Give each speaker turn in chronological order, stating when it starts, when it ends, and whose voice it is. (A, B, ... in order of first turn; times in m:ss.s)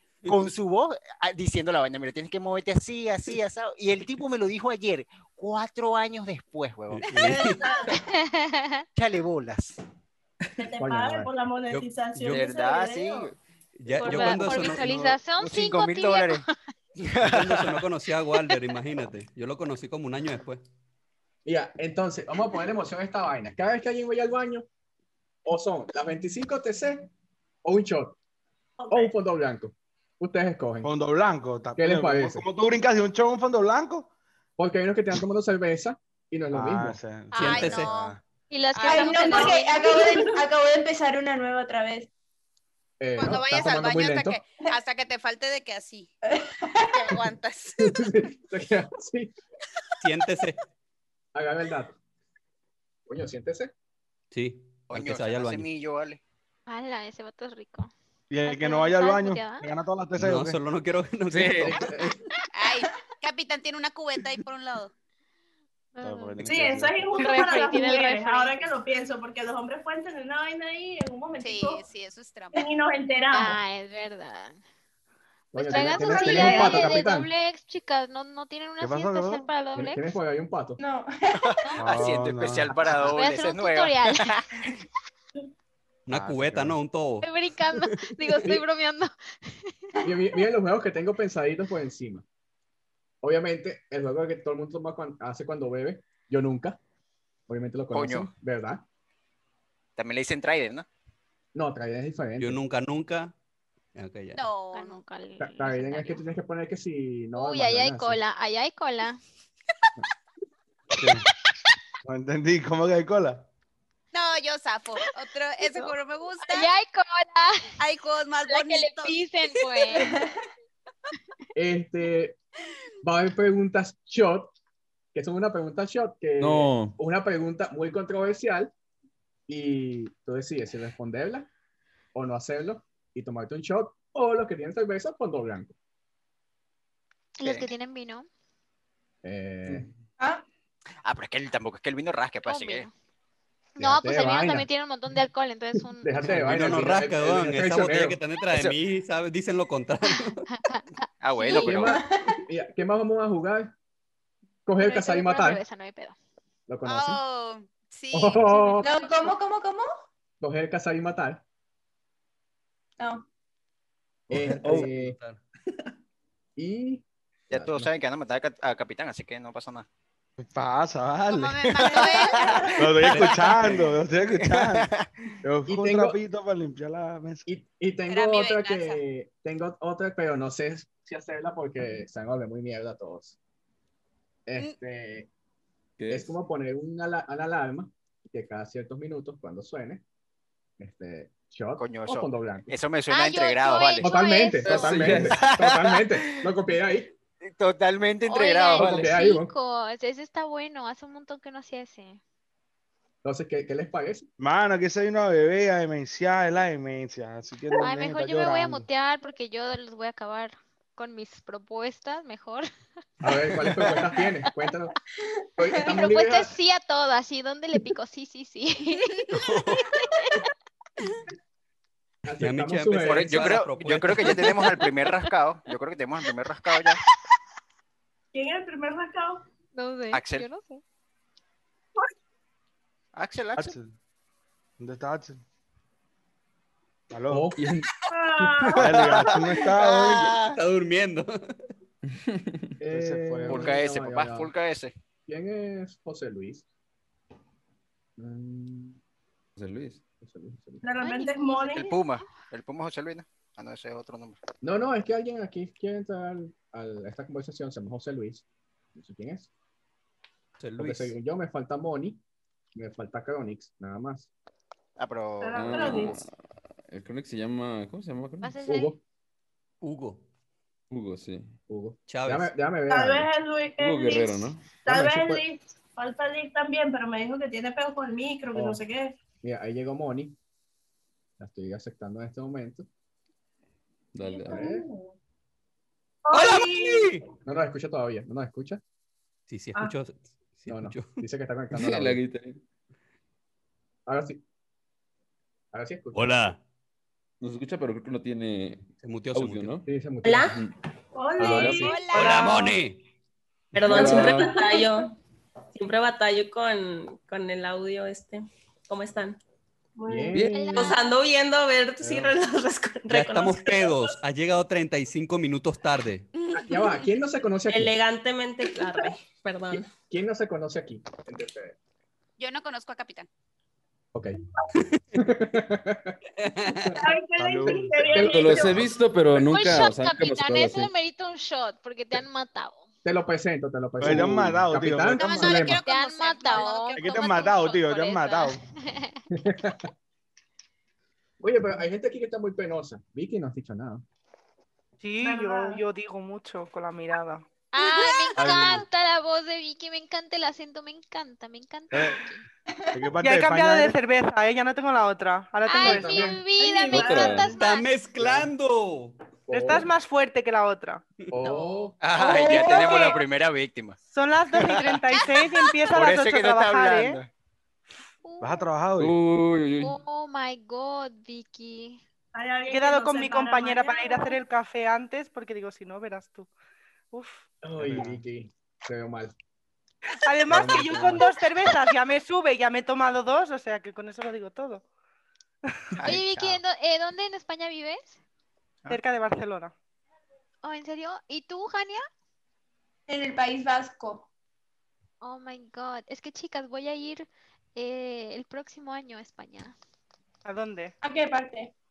0:00.2-0:07.1 A
0:06.9-0:07.6 B
0:07.1-0:07.4 C
0:07.4-0:07.8 D
0:07.9-0:08.8 E
0:08.9-0:09.8 A
0:10.6-0:13.3 D
0:10.8-0:11.3 F
0:11.7-0:12.4 B
0:12.3-0:13.4 A
0:13.8-0:15.0 B
0:14.0-0:16.5 E
0:14.1-0:16.4 A
0:17.0-0:17.8 A
0:17.2-0:20.6 B
0:21.4-0:24.6 F
0:25.4-0:27.1 F
0:27.6-0:28.2 F
0:28.8-0:29.1 D
0:28.9-0:30.9 F
0:30.8-0:34.1 C
0:31.8-0:32.4 F
0:34.6-0:37.0 F
0:36.5-0:38.2 C
0:37.3-0:38.1 G
0:37.3-0:38.0 B
0:38.5-0:40.0 E
0:38.8-0:42.1 H
0:38.8-0:39.6 G
0:39.3-0:40.1 D
0:43.0-0:44.4 F
0:43.2-0:46.1 G
0:46.3-0:47.2 H
0:46.9-0:48.0 G
0:47.8-0:49.3 F
0:50.0-0:50.6 B
0:51.3-0:52.0 F
0:53.1-0:53.7 F
0:54.3-0:55.7 B
0:54.9-0:56.2 A
0:56.7-0:57.9 E
0:58.3-1:00.6 C
0:58.4-0:59.7 E
1:00.2-1:01.8 B
1:01.3-1:02.2 I
1:01.6-1:02.1 F
1:02.5-1:04.9 G
1:05.9-1:08.6 E
1:06.0-1:07.2 C
1:06.4-1:11.8 D
1:11.4-1:12.6 G
1:12.5-1:13.6 D
1:13.3-1:14.6 E
1:15.5-1:20.0 E
1:15.5-1:17.3 F
1:15.7-1:17.0 D
1:18.8-1:19.5 C
1:19.7-1:20.8 F
1:20.8-1:21.9 H
1:21.4-1:24.5 A
1:21.8-1:23.0 C
1:23.0-1:24.3 E
1:26.1-1:27.8 B
1:26.2-1:26.5 C
1:27.2-1:29.7 E
1:30.0-1:32.2 F
1:33.2-1:36.8 F
1:37.5-1:38.8 F
1:37.9-1:38.3 A
1:40.0-1:40.8 A
1:41.5-1:42.6 F
1:42.4-1:43.3 B
1:43.9-1:44.4 B
1:44.3-1:45.0 G
1:44.7-1:46.2 E
1:45.4-1:48.2 F
1:47.3-1:49.2 E
1:50.9-1:51.3 C
1:52.0-1:53.4 C
1:54.1-1:56.7 G
1:56.4-1:57.6 E
1:57.8-1:59.2 G
1:58.4-2:00.2 E
1:59.9-2:00.3 H
2:01.6-2:02.4 F
2:03.0-2:04.5 F
2:05.1-2:08.7 F
2:06.4-2:07.0 I
2:09.5-2:11.5 F
2:12.1-2:15.7 F
2:17.4-2:18.3 E
2:17.4-2:17.7 A
2:19.2-2:19.9 F
2:21.0-2:22.9 A
2:22.4-2:22.9 E
2:23.8-2:26.1 E
2:23.8-2:24.7 F
2:26.0-2:28.2 F
2:26.2-2:30.4 B
2:30.5-2:30.8 E
2:31.2-2:32.0 A
2:31.3-2:31.9 E
2:31.5-2:33.7 F
2:31.8-2:32.4 H
2:34.6-2:35.6 F
2:34.8-2:36.2 E
2:36.7-2:37.2 F
2:36.8-2:38.6 G
2:38.1-2:38.9 F
2:38.5-2:39.3 E
2:38.8-2:39.9 H
2:40.4-2:41.4 F
2:43.0-2:43.2 H
2:44.3-2:45.2 F
2:44.3-2:44.9 I
2:44.4-2:45.4 B
2:46.6-2:47.0 F
2:47.5-2:49.9 A
2:50.4-2:52.0 C
2:51.3-2:52.4 G
2:51.9-2:52.7 A
2:52.7-2:54.9 C
2:53.0-2:53.9 B
2:54.3-2:55.0 A
2:55.4-2:57.5 C
2:55.7-2:56.2 F
2:57.5-3:03.4 F
2:58.1-2:59.0 G
3:04.5-3:05.3 F
3:06.0-3:06.4 I
3:06.1-3:10.0 F
3:10.8-3:12.7 F
3:11.8-3:14.1 A
3:13.1-3:15.2 E
3:14.0-3:17.1 F
3:14.6-3:15.4 I
3:15.2-3:15.8 A
3:17.4-3:19.0 A
3:18.2-3:22.2 E
3:18.8-3:19.5 F
3:18.8-3:19.0 I
3:23.2-3:24.3 F
3:24.4-3:28.8 C
3:27.8-3:32.7 E
3:33.2-3:34.9 F
3:35.6-3:36.5 F
3:35.6-3:36.0 H
3:35.8-3:40.4 E
3:39.3-3:39.8 B
3:42.2-3:43.6 F
3:42.4-3:44.7 B
3:43.0-3:47.0 A
3:48.3-3:49.4 D
3:49.7-3:50.8 E
3:50.1-3:50.5 A
3:53.1-3:53.7 A
3:53.6-3:53.9 C
3:54.8-3:55.4 C
3:57.1-3:57.5 C
3:57.3-3:57.7 F
3:57.6-3:57.8 I
3:58.1-3:58.9 D
3:58.8-4:00.4 C
3:58.9-3:59.3 F
3:59.7-4:00.6 A
4:00.5-4:01.5 B
4:02.1-4:02.7 I
4:02.8-4:04.5 F
4:02.8-4:03.8 C
4:03.5-4:04.9 A
4:05.2-4:06.6 F
4:08.2-4:09.0 F
4:09.6-4:10.0 I
4:10.2-4:10.8 F
4:10.8-4:11.8 D
4:11.0-4:12.0 E
4:11.7-4:14.4 A
4:14.6-4:18.4 F
4:18.9-4:19.5 F
4:20.6-4:21.2 B
4:20.8-4:22.2 F
4:22.7-4:24.3 F
4:25.0-4:26.1 A
4:25.4-4:26.2 D
4:25.5-4:26.3 I
4:26.9-4:28.6 I
4:28.4-4:28.9 E
4:28.6-4:29.0 F
4:29.8-4:30.2 B
4:30.9-4:31.5 I
4:31.7-4:33.3 F
4:32.1-4:32.5 B
4:32.9-4:39.2 D
4:33.8-4:34.7 I
4:34.8-4:35.4 F
4:38.5-4:38.8 F
4:39.4-4:40.4 F
4:41.4-4:42.9 F
4:44.1-4:44.7 I
4:44.2-4:45.1 D
4:44.5-4:44.8 F
4:46.2-4:47.2 D
4:46.3-4:47.2 B
4:47.4-4:48.8 F
4:49.5-4:51.2 B
4:50.7-4:52.2 F
4:51.7-4:52.6 I
4:54.1-4:54.4 F
4:55.7-4:56.3 F
4:56.1-4:56.6 B
4:57.4-4:59.9 I
4:59.0-4:59.8 B
4:59.8-5:00.5 F
5:00.2-5:00.6 J
5:00.5-5:00.7 I
5:01.1-5:02.8 D
5:01.4-5:01.9 I
5:01.4-5:01.9 F
5:01.8-5:02.6 G
5:02.1-5:03.0 B
5:03.7-5:04.5 I
5:03.7-5:05.1 J
5:03.9-5:04.4 F
5:03.9-5:04.9 D
5:05.7-5:09.4 J
5:10.0-5:10.4 D
5:10.0-5:10.9 F
5:10.3-5:10.8 I
5:10.5-5:11.0 E
5:10.7-5:13.9 J
5:12.0-5:12.3 C
5:13.1-5:16.3 B
5:16.3-5:17.0 G
5:16.5-5:17.9 F
5:17.7-5:19.9 J
5:19.7-5:21.8 F
5:22.4-5:23.3 G
5:24.1-5:24.4 F
5:25.1-5:27.0 F
5:26.4-5:27.0 B
5:27.0-5:29.0 D
5:27.4-5:28.8 C
5:28.1-5:28.8 F
5:28.2-5:30.9 I
5:29.4-5:32.8 E
5:33.0-5:35.8 F
5:34.0-5:35.8 C
5:35.1-5:37.3 G
5:35.8-5:39.2 E
5:36.9-5:38.6 C
5:39.4-5:39.9 F
5:41.4-5:44.0 F
5:45.0-5:47.4 K
5:45.2-5:45.8 D
5:47.7-5:52.4 E
5:47.8-5:48.4 G
5:48.4-5:48.8 C
5:52.9-5:54.0 C
5:53.2-5:56.4 K
5:55.6-5:57.9 E
5:55.8-5:56.4 F
5:56.9-5:57.4 D
5:56.9-5:57.5 I
5:57.5-5:59.2 B
5:58.2-5:58.5 F
5:59.5-5:59.9 F
5:59.5-6:01.0 K
6:01.3-6:02.0 F
6:02.0-6:04.0 A
6:02.2-6:03.2 H
6:02.3-6:02.6 E
6:04.0-6:07.2 K
6:05.1-6:05.7 G
6:05.9-6:07.3 A
6:08.2-6:08.7 E
6:08.4-6:09.2 C
6:09.0-6:10.0 I
6:09.8-6:12.0 E
6:12.3-6:14.4 D
6:12.7-6:16.5 K
6:17.1-6:17.4 K
6:17.6-6:19.3 F
6:17.8-6:18.2 C
6:20.2-6:24.8 K
6:20.5-6:21.3 F
6:26.0-6:26.6 A
6:26.0-6:28.2 E
6:28.9-6:29.7 K
6:30.6-6:32.0 E
6:33.1-6:34.3 H
6:35.2-6:39.7 E
6:40.4-6:40.9 K
6:41.0-6:41.7 H